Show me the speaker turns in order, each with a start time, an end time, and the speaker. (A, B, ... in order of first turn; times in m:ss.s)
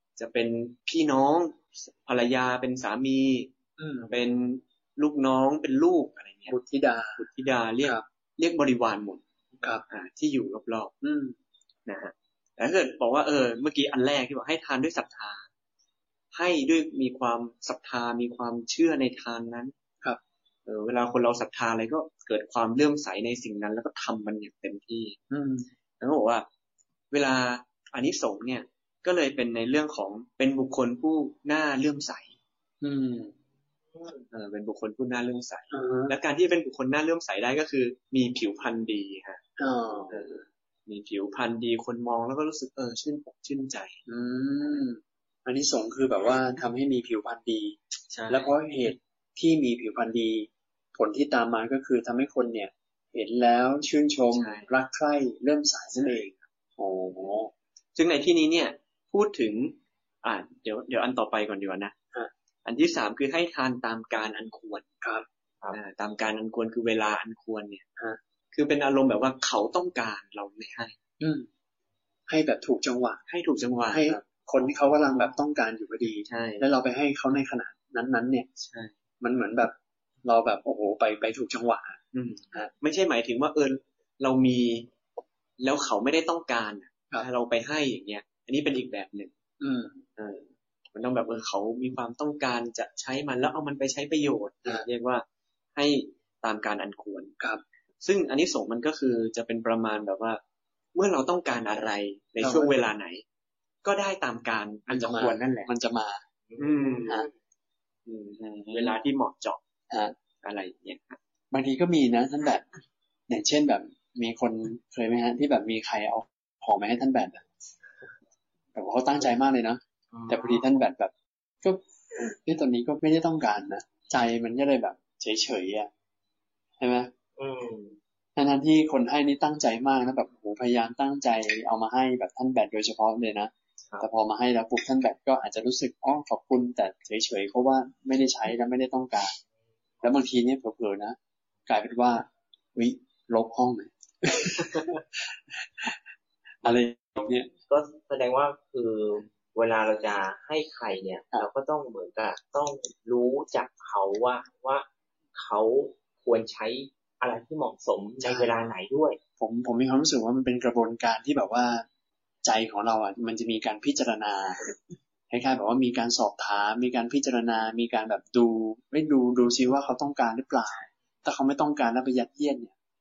0:00.2-0:03.5 A
0:03.8-0:04.2 B
0:04.1-0:06.6 A
0:06.5-0:07.2 B
0:07.2-0:09.2 A
0:09.9-0:10.9 A
0:11.0-0:11.4 B
0:11.9-0:15.4 A
0:16.3-0:19.7 A
0:20.7-0:25.2 A
0:25.3-0:25.7 B
0:26.0-0:26.5 A
0:27.1-0:32.3 A
0:32.8-0:33.3 B
0:33.9-0:34.3 C
0:34.3-0:39.4 A
0:35.7-0:36.2 B
0:39.6-0:40.2 B
0:40.1-0:44.0 A
0:44.1-0:47.8 B
0:48.1-0:48.5 A
0:48.3-0:57.5 B
0:54.3-0:54.7 A
0:58.0-1:02.0 A
1:02.6-1:04.8 A
1:05.7-1:07.8 A
1:08.5-1:11.0 A
1:11.2-1:11.5 B
1:12.3-1:13.2 B
1:13.3-1:14.2 A
1:13.9-1:18.5 B
1:16.3-1:16.7 A
1:18.6-1:18.9 A
1:19.2-1:22.0 B
1:22.1-1:24.9 A
1:25.6-1:29.3 A
1:29.6-1:30.0 B
1:30.2-1:37.4 A
1:38.0-1:40.4 A
1:41.0-1:43.2 A
1:42.4-1:42.8 B
1:43.8-1:45.7 A
1:44.9-1:46.2 B
1:46.5-1:47.3 C
1:46.6-1:47.2 A
1:48.1-1:49.6 A
1:48.4-1:49.0 B
1:50.4-1:51.2 A
1:51.5-1:52.6 B
1:53.3-1:57.4 B
1:58.8-2:05.9 B
2:00.1-2:00.6 C
2:06.8-2:07.1 B
2:07.4-2:08.0 C
2:08.4-2:19.4 B
2:20.0-2:25.2 B
2:26.6-2:27.5 B
2:27.7-2:39.2 C
2:38.2-2:38.5 B
2:39.4-2:41.9 B
2:42.4-2:44.6 B
2:45.3-2:52.7 B